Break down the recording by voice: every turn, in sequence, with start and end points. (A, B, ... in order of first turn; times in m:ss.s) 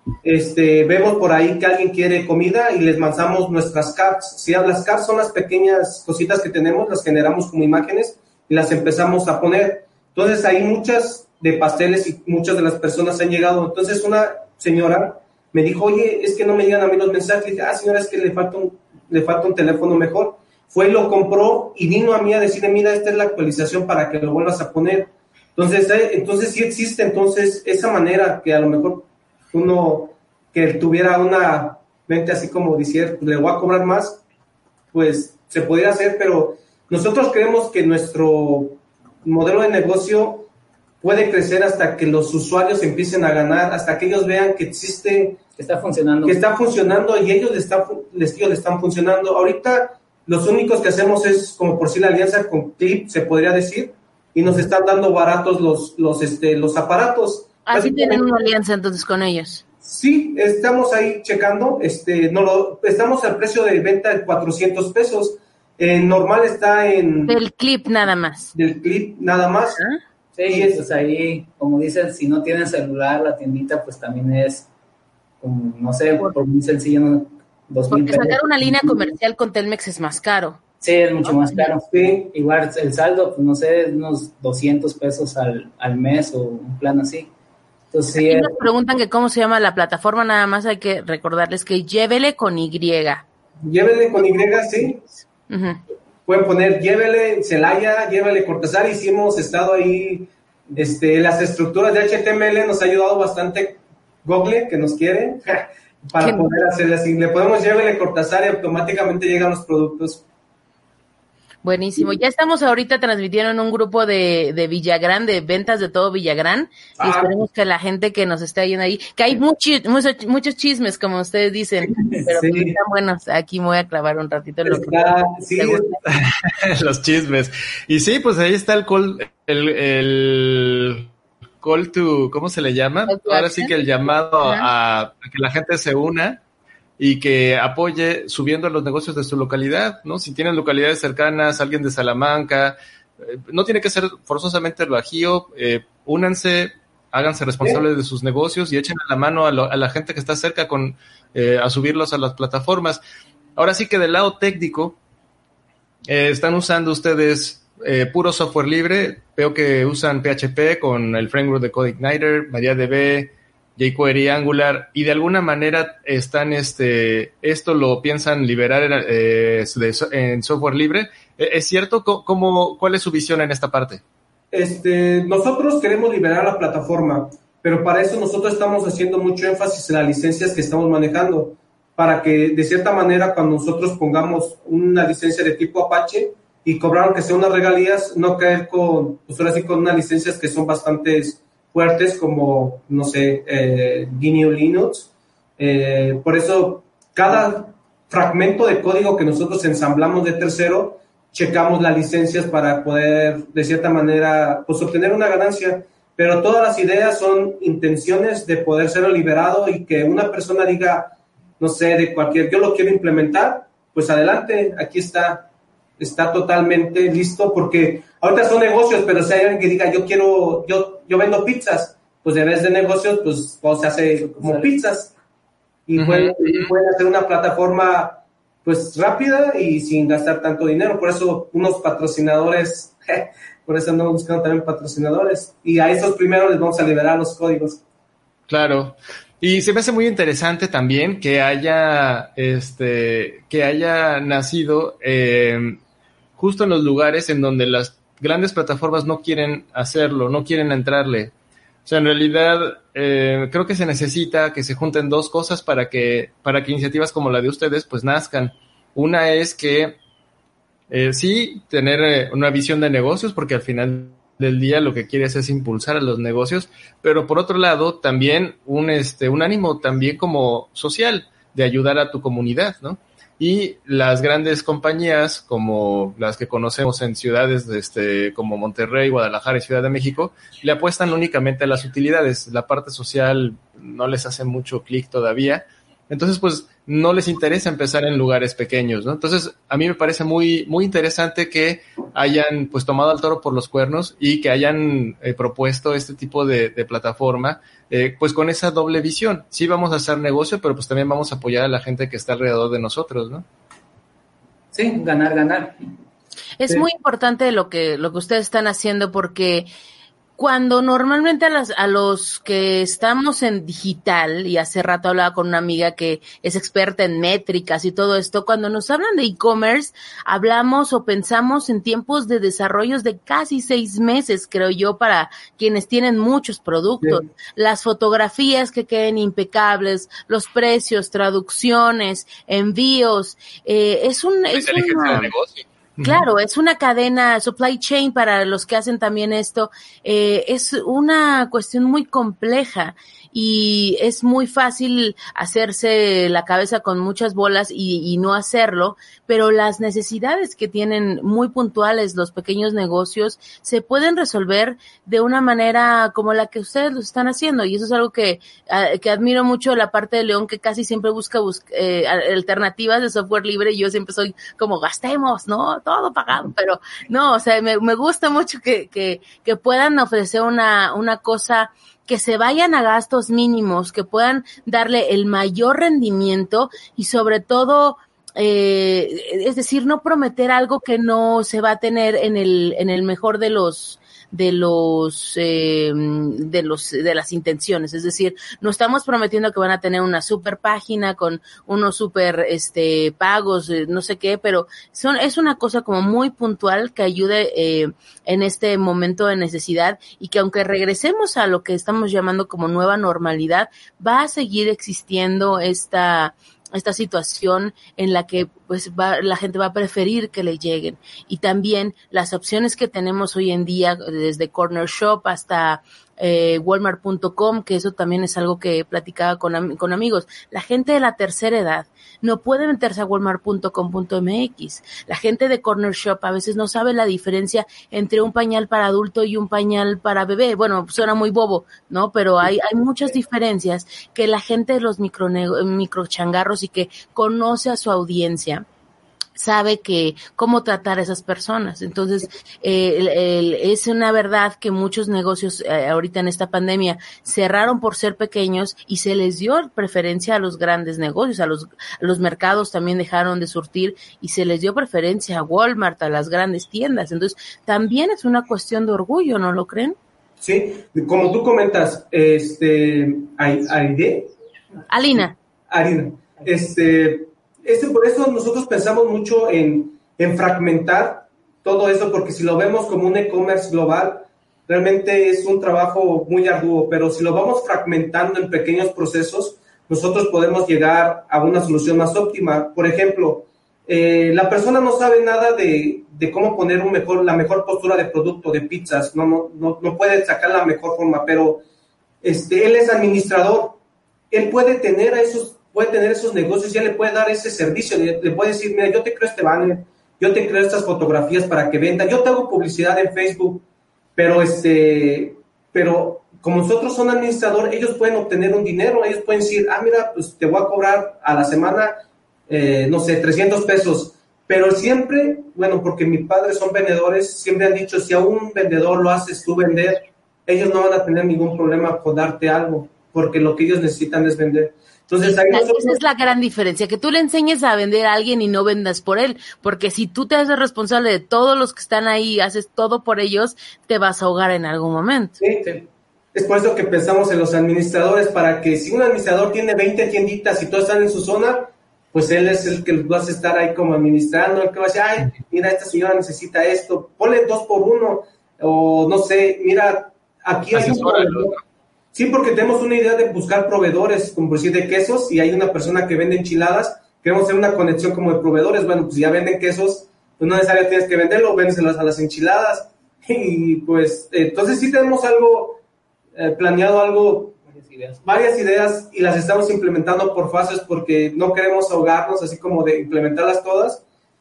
0:00.2-0:34.2 A
0:34.9-0:40.5 A
0:41.0-0:45.4 A
0:45.6-0:46.4 B
0:46.2-0:58.4 A
0:57.7-0:59.6 C
0:59.8-1:07.4 A
1:07.3-1:08.5 C
1:08.5-1:09.8 A
1:10.4-1:14.7 B
1:10.4-1:10.8 A
1:15.4-1:19.0 B
1:17.9-1:20.6 C
1:20.8-1:27.3 B
1:21.9-1:22.3 A
1:27.9-1:28.6 B
1:28.2-1:33.2 C
1:33.6-1:35.0 A
1:35.5-1:35.8 C
1:36.3-1:50.2 A
1:46.2-1:46.5 C
1:51.6-2:06.0 C
1:57.0-1:57.3 A
2:02.3-2:02.8 A
2:04.7-2:05.9 A
2:06.1-2:11.1 D
2:11.6-2:16.4 D
2:13.1-2:13.8 C
2:14.4-2:14.7 C
2:17.0-2:33.0 D
2:33.6-2:35.0 D
2:36.1-2:54.0 D
2:54.5-3:35.5 A
3:36.0-3:45.1 A
3:44.3-3:44.7 B
3:45.9-3:57.8 A
3:46.0-3:46.7 D
3:58.5-4:05.8 D
4:06.4-4:11.3 D
4:11.9-4:20.0 D
4:20.9-5:03.4 D
5:04.7-5:05.8 B
5:06.6-5:09.7 C
5:10.4-5:35.3 C
5:34.5-5:36.2 D
5:36.0-7:18.6 C
7:19.4-7:40.0 C
7:40.4-7:44.3 A
7:44.9-7:45.4 C
7:45.2-8:11.6 A
8:12.2-8:13.8 A
8:14.3-8:23.6 A
8:24.2-8:46.0 A
8:45.2-8:55.4 C
8:55.4-8:55.7 A
8:56.3-9:11.6 A
9:10.7-9:11.6 D
9:12.1-9:25.8 A
9:26.4-9:27.6 A
9:27.7-9:28.2 B
9:28.2-9:34.0 A